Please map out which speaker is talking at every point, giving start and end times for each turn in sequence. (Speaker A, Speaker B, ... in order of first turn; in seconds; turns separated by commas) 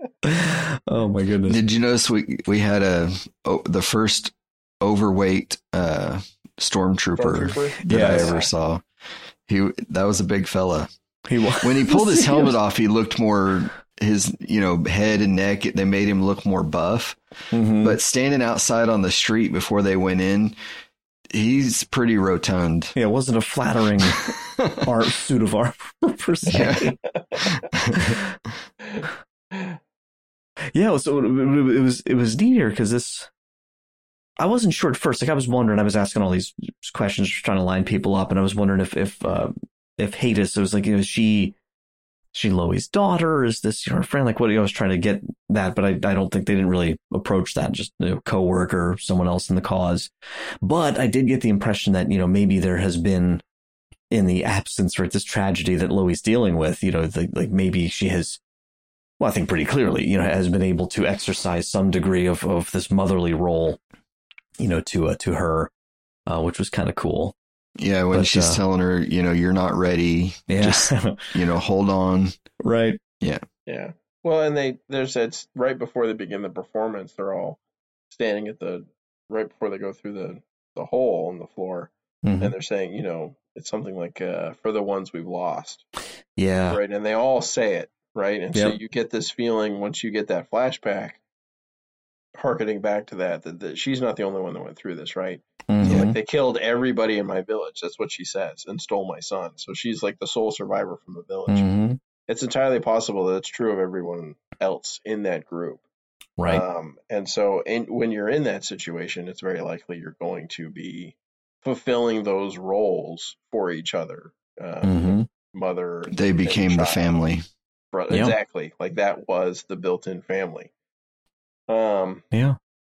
Speaker A: 0.2-1.6, Speaker B: 1.5-8.8, Speaker C: 7.2-8.5, Speaker A: 7.9-8.3, Speaker B: 9.5-10.9, Speaker A: 11.3-12.6, Speaker B: 11.6-17.2, Speaker A: 17.5-18.0, Speaker B: 17.8-20.6, Speaker B: 21.3-22.9, Speaker A: 23.0-24.2, Speaker B: 24.2-24.7, Speaker A: 24.8-27.0, Speaker B: 26.5-26.9, Speaker B: 27.5-28.2, Speaker A: 30.7-33.3, Speaker A: 34.4-41.5, Speaker A: 42.3-50.1, Speaker A: 50.6-53.4, Speaker A: 54.1-58.4, Speaker A: 59.2-63.8, Speaker A: 64.6-65.7, Speaker A: 66.3-67.3, Speaker B: 67.8-72.4, Speaker A: 68.1-68.6, Speaker A: 70.5-71.3, Speaker A: 72.6-73.0, Speaker C: 73.7-77.6, Speaker C: 78.1-85.9, Speaker A: 82.2-82.5, Speaker A: 86.4-86.8, Speaker C: 86.7-91.2, Speaker C: 92.3-101.7, Speaker A: 95.7-96.2, Speaker A: 101.5-102.0, Speaker C: 102.3-105.8, Speaker A: 106.4-106.6, Speaker C: 106.5-117.2, Speaker A: 114.8-115.3, Speaker B: 116.1-117.5, Speaker C: 117.9-120.7, Speaker A: 118.1-118.4, Speaker C: 121.7-122.2, Speaker A: 122.3-122.6